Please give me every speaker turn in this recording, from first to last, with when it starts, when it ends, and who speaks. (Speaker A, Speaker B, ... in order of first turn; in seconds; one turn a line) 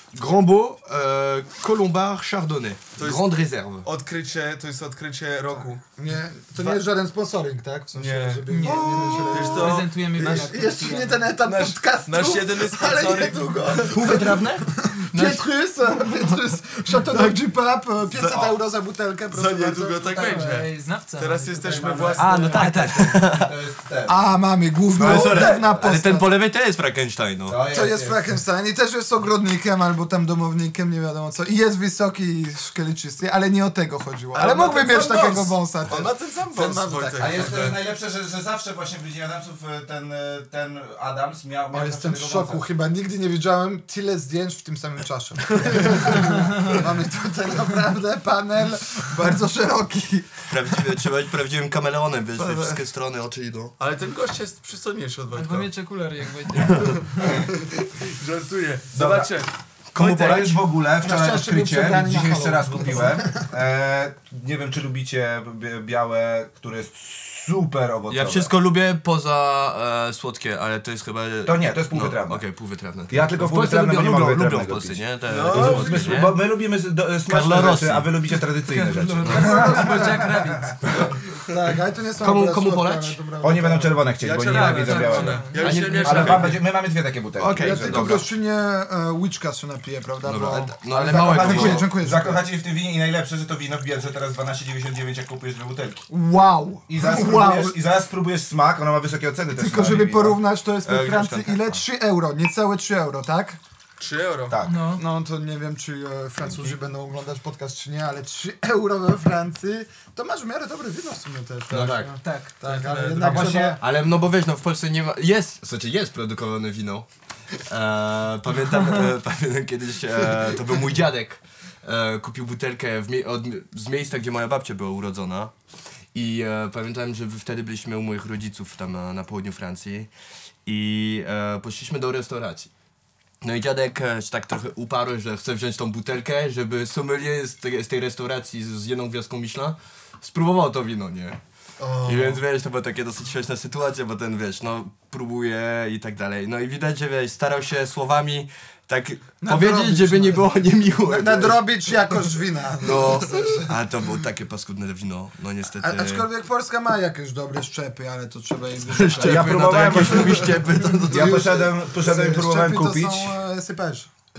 Speaker A: 0.1-3.9
Speaker B: 3.0-3.2
Speaker B: 3.8-5.8
Speaker C: 6.0-20.6
Speaker B: 6.6-6.8
Speaker B: 8.0-10.7
Speaker D: 8.5-11.3
Speaker B: 11.4-14.4
Speaker A: 13.9-14.7
Speaker B: 15.0-15.5
Speaker B: 18.1-18.6
Speaker B: 19.3-22.8
Speaker D: 20.1-22.7
Speaker C: 21.7-23.2
Speaker A: 22.2-23.5
Speaker E: 23.2-24.3
Speaker C: 24.1-26.3
Speaker A: 25.0-27.6
Speaker E: 25.1-25.7
Speaker E: 27.5-28.2
Speaker C: 27.7-37.7
Speaker B: 34.3-37.8
Speaker E: 37.2-42.6
Speaker C: 41.7-50.9
Speaker D: 46.2-46.7
Speaker A: 50.5-53.7
Speaker C: 52.4-52.8
Speaker B: 53.8-55.7
Speaker D: 55.3-57.4
Speaker B: 56.7-60.5
Speaker E: 58.9-59.3
Speaker A: 59.9-60.6
Speaker E: 60.0-68.5
Speaker C: 61.0-63.5
Speaker A: 68.1-76.4
Speaker E: 71.5-72.4
Speaker E: 73.1-81.0
Speaker B: 75.3-76.2
Speaker A: 77.3-78.1
Speaker D: 78.5-80.8
Speaker A: 79.2-79.5
Speaker C: 79.3-80.3
Speaker C: 81.4-84.0
Speaker A: 82.2-83.2
Speaker E: 83.4-88.3
Speaker B: 84.2-86.6
Speaker D: 84.5-86.4
Speaker A: 85.5-86.6
Speaker A: 87.4-88.3
Speaker C: 87.6-92.4
Speaker A: 90.2-91.9
Speaker E: 91.1-96.1
Speaker C: 96.1-97.8
Speaker E: 96.9-100.4
Speaker C: 99.5-103.6
Speaker A: 100.8-101.8
Speaker B: 104.0-104.6
Speaker E: 104.5-104.9
Speaker D: 104.6-105.0
Speaker C: 105.0-113.8
Speaker A: 111.7-112.2
Speaker D: 112.2-112.6
Speaker B: 112.7-113.5
Speaker E: 113.2-113.8
Speaker A: 113.8-117.1
Speaker A: 117.7-125.5
Speaker A: 126.1-130.1
Speaker A: 130.7-132.7
Speaker A: 133.4-141.4
Speaker B: 141.8-142.4
Speaker A: 142.0-151.9
Speaker C: 149.4-153.7
Speaker A: 152.8-156.3
Speaker C: 155.8-164.1
Speaker A: 158.9-161.5
Speaker E: 159.2-163.4